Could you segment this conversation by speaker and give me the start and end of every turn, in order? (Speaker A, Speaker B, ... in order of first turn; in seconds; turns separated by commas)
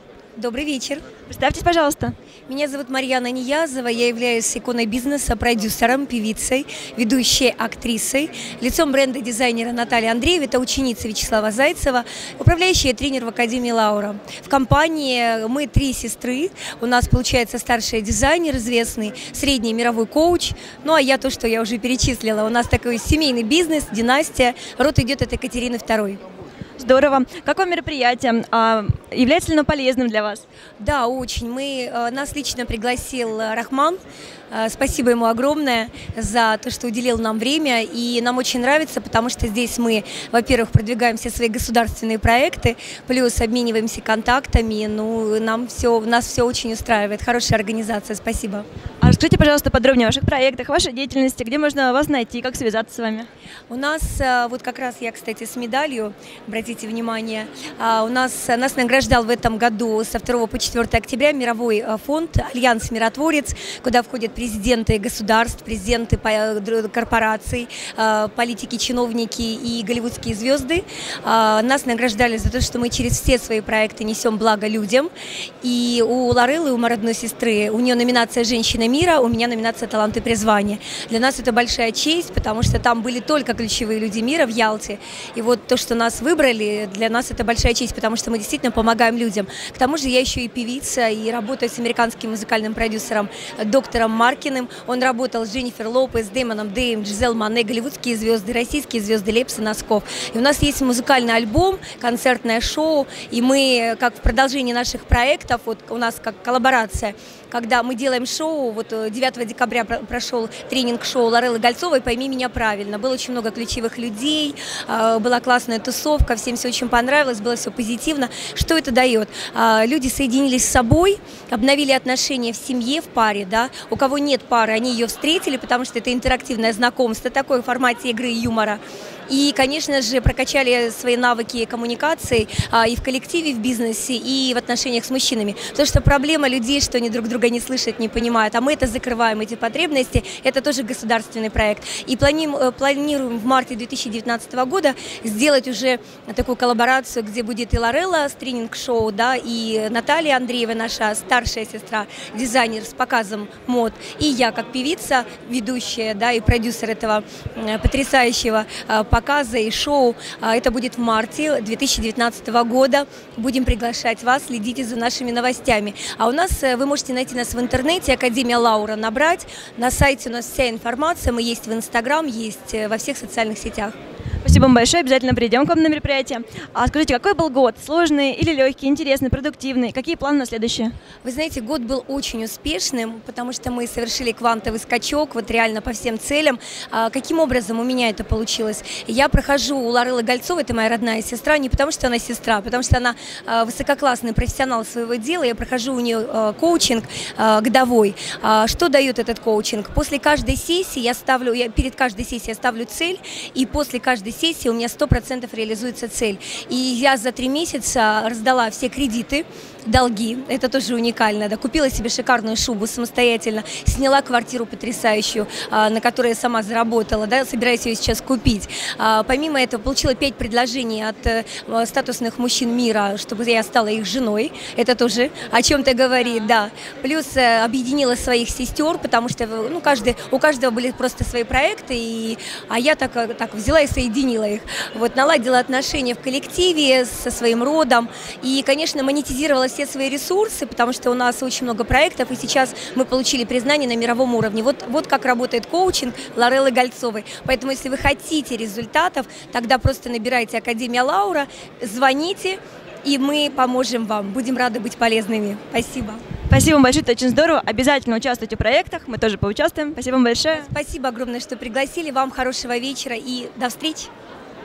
Speaker A: 0.4-1.0, Speaker B: 1.3-2.1, Speaker A: 2.5-26.2, Speaker B: 26.8-30.4, Speaker A: 30.8-34.0, Speaker A: 34.5-48.6, Speaker B: 49.0-53.3, Speaker A: 53.7-75.1, Speaker A: 75.6-173.9, Speaker B: 174.4-180.9, Speaker A: 181.2-256.2, Speaker B: 256.5-260.7, Speaker A: 260.5-264.1